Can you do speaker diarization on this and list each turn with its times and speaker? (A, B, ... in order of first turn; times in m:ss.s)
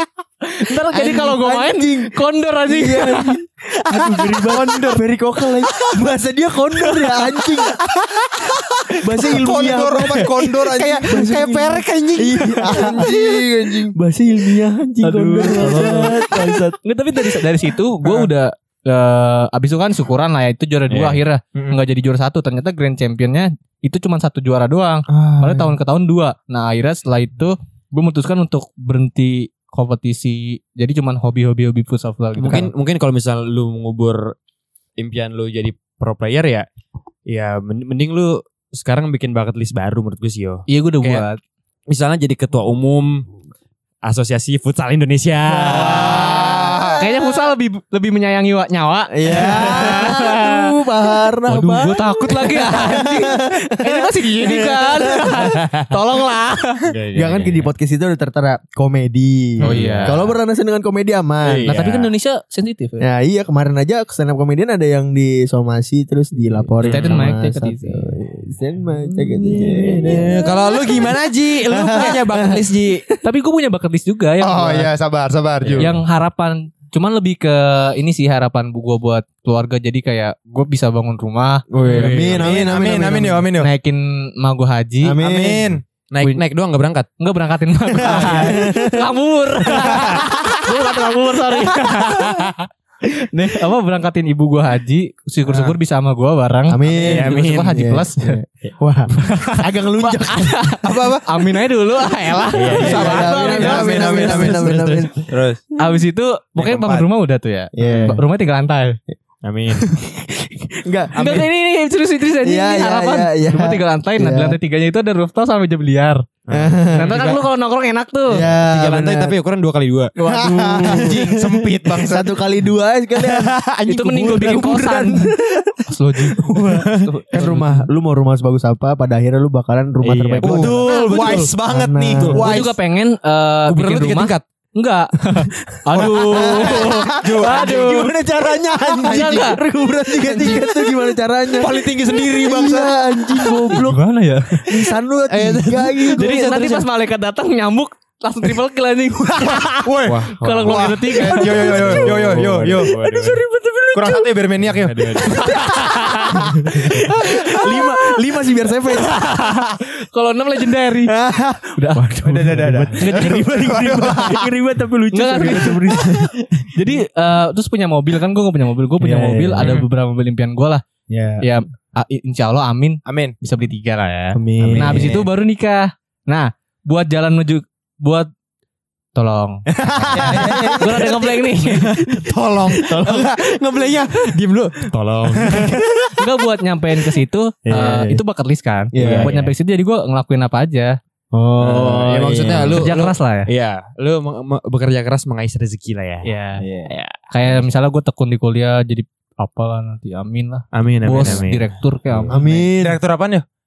0:00.5-0:03.4 A
0:00.9-0:02.1 B
0:02.7-0:07.8 B
0:08.9-0:13.9 C
0:09.0-0:17.4 B
0:15.0-0:32.7 A
0:20.9-0:21.2 D
0:25.1-0:25.8 B
0:32.4-0:34.3 D
0:35.0-0:36.6 D
0:37.3-0:41.2 D
0:40.7-0:41.4 A
0:41.9-0:43.3 D
0:44.0-0:46.8 D
0:45.5-0:47.0 B
0:46.0-0:47.0 C
0:47.0-0:50.4 A
0:49.1-0:55.5 B
0:51.5-0:56.7 A
0:56.9-0:57.7 D
0:57.1-1:01.7 B
0:59.6-1:00.3 D
0:59.6-1:00.2 A
1:01.4-1:02.1 D
1:01.7-1:03.0 A
1:03.0-1:13.2 B
1:06.8-1:07.3 D
1:06.8-1:08.1 A
1:09.0-1:13.1 D
1:13.2-1:14.9 A
1:14.4-1:15.9 C
1:15.6-1:16.0 D
1:15.8-1:22.1 A
1:21.7-1:23.5 B
1:21.9-1:22.6 D
1:22.1-1:23.7 C
1:23.6-1:25.2 A
1:25.0-1:25.8 B
1:25.2-1:25.8 C
1:26.1-1:27.1 D
1:27.2-1:32.5 A
1:28.0-1:29.1 B
1:29.7-1:31.5 B
1:29.8-1:30.4 D
1:32.0-1:32.7 D
1:33.2-1:38.4 A
1:35.5-1:35.8 C
1:36.7-1:40.6 B
1:36.9-1:37.8 D
1:39.2-1:44.5 A
1:40.8-1:41.2 C
1:42.5-1:43.3 D
1:42.7-1:44.8 C
1:42.7-1:45.2 B
1:44.1-1:45.2 D
1:45.3-1:45.6 C
1:45.8-1:49.0 A
1:46.6-1:47.1 C
1:47.8-1:48.2 B
1:49.4-1:49.9 D
1:49.8-1:51.5 B
1:51.1-1:56.2 A
1:52.4-1:54.6 B
1:56.5-1:57.4 D
1:56.5-1:57.2 B
1:56.9-1:58.4 A
1:58.3-1:59.3 B
1:58.6-2:00.1 D
2:00.2-2:12.4 B
2:00.2-2:02.3 C
2:03.9-2:05.3 A
2:05.8-2:07.8 A
2:10.0-2:11.5 D
2:10.4-2:12.7 C
2:12.2-2:12.6 D
2:12.3-2:18.1 A
2:13.7-2:14.4 D
2:15.9-2:18.0 C
2:16.1-2:24.0 B
2:19.0-2:19.5 C
2:19.0-2:19.6 A
2:20.1-2:20.9 C
2:21.6-2:23.8 C
2:23.7-2:24.7 A
2:24.7-2:26.5 B
2:24.7-2:26.8 C
2:26.1-2:32.4 A
2:29.4-2:32.9 C
2:30.0-2:31.0 D
2:31.2-2:34.3 B
2:32.1-2:33.4 D
2:33.9-2:35.3 C
2:34.6-2:37.0 D
2:35.2-2:39.2 B
2:37.2-2:37.9 A
2:39.0-2:41.1 A
2:41.1-2:46.3 B
2:41.8-2:43.5 A
2:42.2-2:44.5 C
2:45.1-2:45.9 A
2:46.7-2:50.8 A
2:49.0-2:49.8 B
2:49.6-2:49.8 C
2:51.1-2:51.4 B
2:51.4-2:58.3 A
2:53.0-2:53.3 C
2:54.3-2:55.2 B
2:54.8-2:55.2 C
2:59.1-3:01.9 A
2:59.7-3:01.3 B
3:00.1-3:01.1 C
3:02.0-3:05.8 D
3:02.0-3:03.4 B
3:05.4-3:05.9 B
3:06.2-3:10.9 A
3:07.6-3:08.2 B
3:08.9-3:09.3 B
3:09.0-3:09.5 D
3:11.3-3:12.9 B
3:11.6-3:16.3 D
3:12.8-3:13.5 A
3:16.2-3:16.6 A
3:16.6-3:16.9 B
3:16.9-3:17.6 D
3:17.3-3:22.6 A
3:20.7-3:22.4 D
3:22.3-3:23.0 B
3:22.8-3:23.4 C